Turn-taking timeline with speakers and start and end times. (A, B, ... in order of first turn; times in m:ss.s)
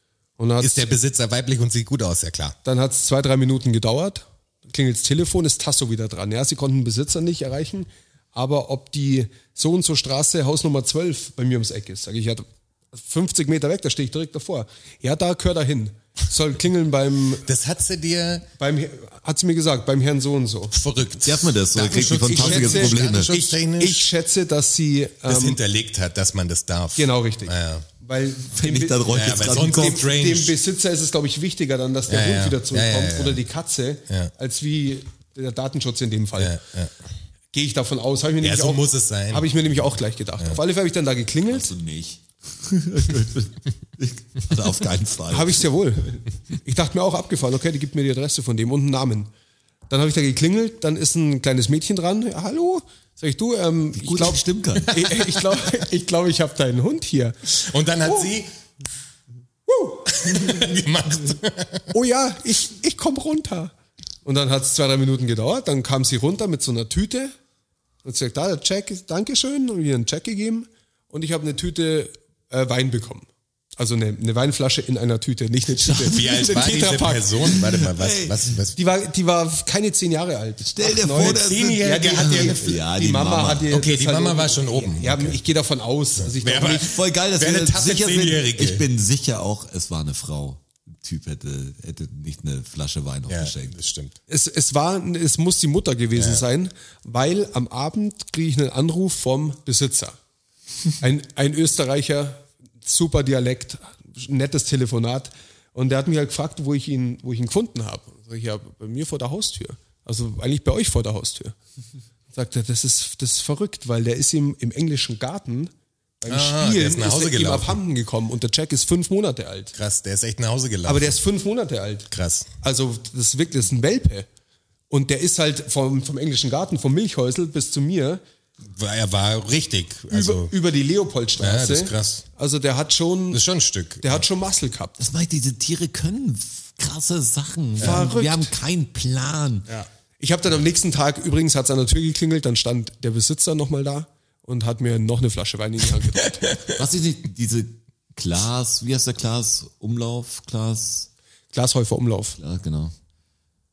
0:00.4-0:00.9 A
0:00.6-0:02.6 B
0:02.6-0:17.4 A
0:17.5-0:18.5 B
0:18.6-0:20.8 A
0:20.7-0:24.0 B
0:21.2-0:23.3 C
0:21.9-0:25.6 A
0:25.3-0:27.8 B
0:27.0-0:36.6 A
0:28.5-0:30.0 C
0:29.1-0:30.6 B
0:32.1-0:33.4 B
0:36.4-0:36.9 B
0:37.5-0:41.7 A
0:38.4-0:39.5 B
0:41.5-0:45.7 C
0:45.3-0:49.3 A
0:49.9-0:58.3 A
0:53.9-0:55.3 C
0:57.7-0:58.5 B
0:59.7-1:00.8 A
1:00.1-1:01.9 B
1:01.9-1:03.7 A
1:04.2-1:07.3 A
1:08.0-1:17.5 A
1:15.8-1:18.5 C
1:16.1-1:18.8 B
1:18.8-1:26.9 A
1:20.6-1:23.7 C
1:21.2-1:22.8 B
1:23.7-1:25.4 B
1:26.2-1:28.9 B
1:26.7-1:33.8 C
1:33.3-1:34.2 B
1:34.3-1:40.2 A
1:36.2-1:36.4 B
1:41.0-1:51.6 A
1:52.3-1:59.8 A
1:56.3-1:57.8 B
1:59.8-2:01.2 B
2:00.8-2:02.1 A
2:02.1-2:02.5 B
2:02.6-2:04.3 A
2:04.9-2:08.2 A
2:08.7-2:10.5 B
2:10.1-2:13.4 A
2:11.4-2:12.3 B
2:13.3-2:14.2 B
2:14.0-2:15.0 A
2:15.0-2:19.7 C
2:17.8-2:18.5 A
2:19.7-2:26.5 A
2:26.7-2:31.1 C
2:31.5-2:32.4 A
2:32.4-2:32.9 C